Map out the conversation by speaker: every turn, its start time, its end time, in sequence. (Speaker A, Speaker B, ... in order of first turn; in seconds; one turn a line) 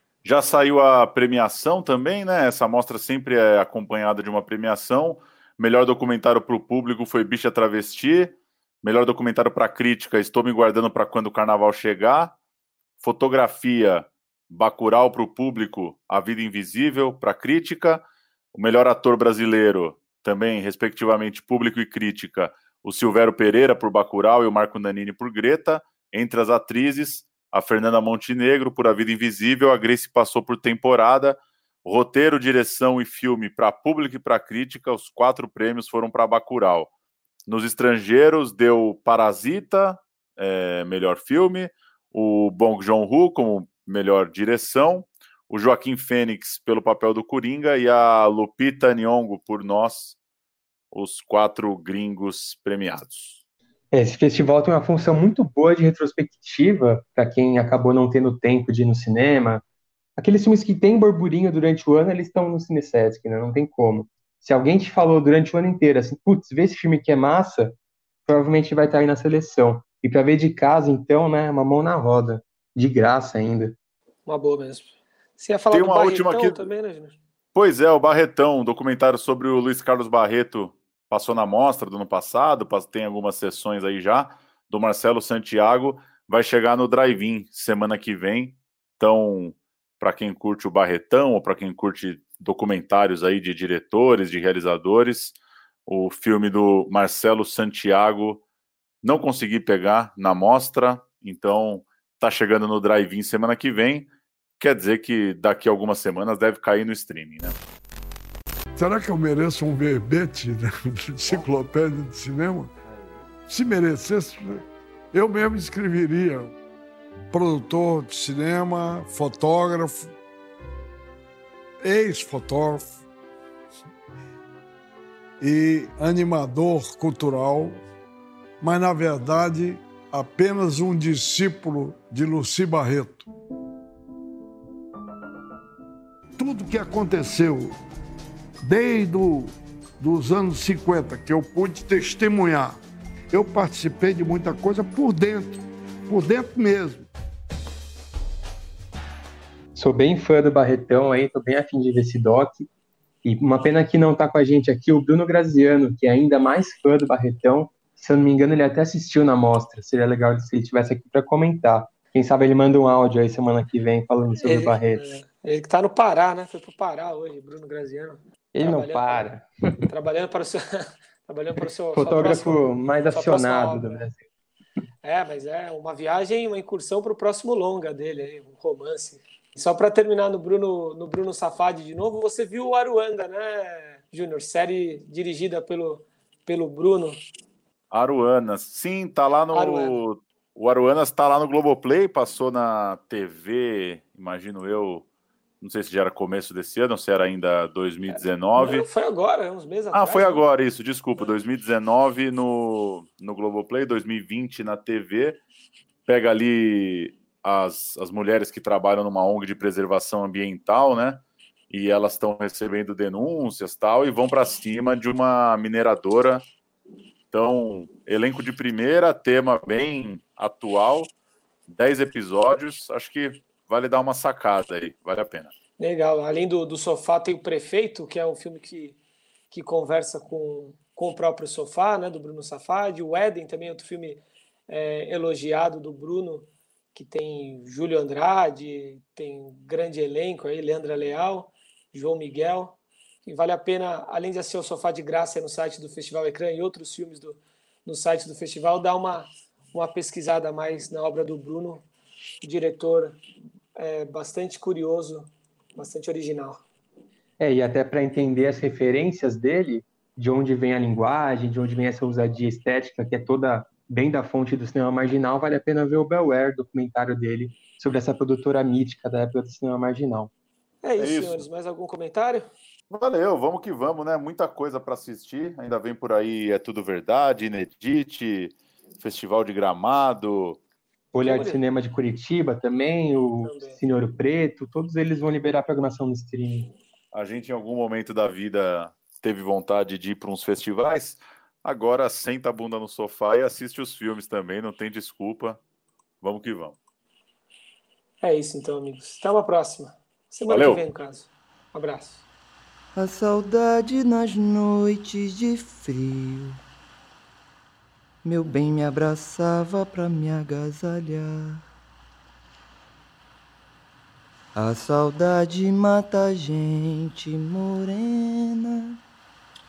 Speaker A: 0.2-12.3
Speaker A: 13.0-18.0
Speaker A: 18.5-36.9
Speaker A: 37.5-50.2
Speaker A: 50.9-53.4
Speaker B: 53.9-59.6
Speaker B: 60.2-67.8
Speaker B: 68.3-73.8
Speaker C: 74.3-77.2
Speaker A: 75.7-76.7
Speaker A: 77.5-95.4
Speaker A: 95.9-98.4
Speaker A: 99.0-104.1
Speaker A: 104.6-107.6
Speaker D: 108.8-112.7
Speaker D: 113.5-116.5
Speaker D: 117.3-120.1
Speaker D: 121.8-123.0
Speaker D: 125.4-127.8
Speaker D: 128.6-133.3
Speaker D: 136.4-137.8
Speaker D: 138.6-142.8
Speaker D: 143.3-147.1
Speaker B: 149.8-152.7
Speaker B: 153.2-165.2
Speaker C: 164.4-169.3
Speaker B: 168.5-169.8
Speaker C: 169.8-174.1
Speaker B: 171.6-174.2
Speaker C: 175.0-187.2
Speaker A: 187.9-195.1
Speaker C: 189.5-190.0
Speaker A: 195.6-198.9
Speaker C: 198.6-200.4
Speaker A: 199.9-205.4
Speaker A: 206.1-216.4
Speaker A: 217.3-221.1
Speaker A: 221.7-225.5
Speaker C: 225.8-229.0
Speaker C: 229.5-251.8
Speaker C: 252.4-253.2
Speaker C: 253.8-256.6
Speaker B: 257.4-270.3
Speaker C: 270.8-272.5
Speaker A: 271.0-271.4
Speaker A: 272.9-280.6
Speaker B: 281.1-286.7
Speaker C: 281.2-281.6
Speaker C: 283.4-283.8
Speaker A: 287.1-295.6
Speaker A: 296.2-296.8
Speaker C: 298.2-302.2
Speaker A: 300.5-300.8
Speaker E: 302.9-306.6
Speaker E: 308.2-311.6
Speaker E: 314.6-319.0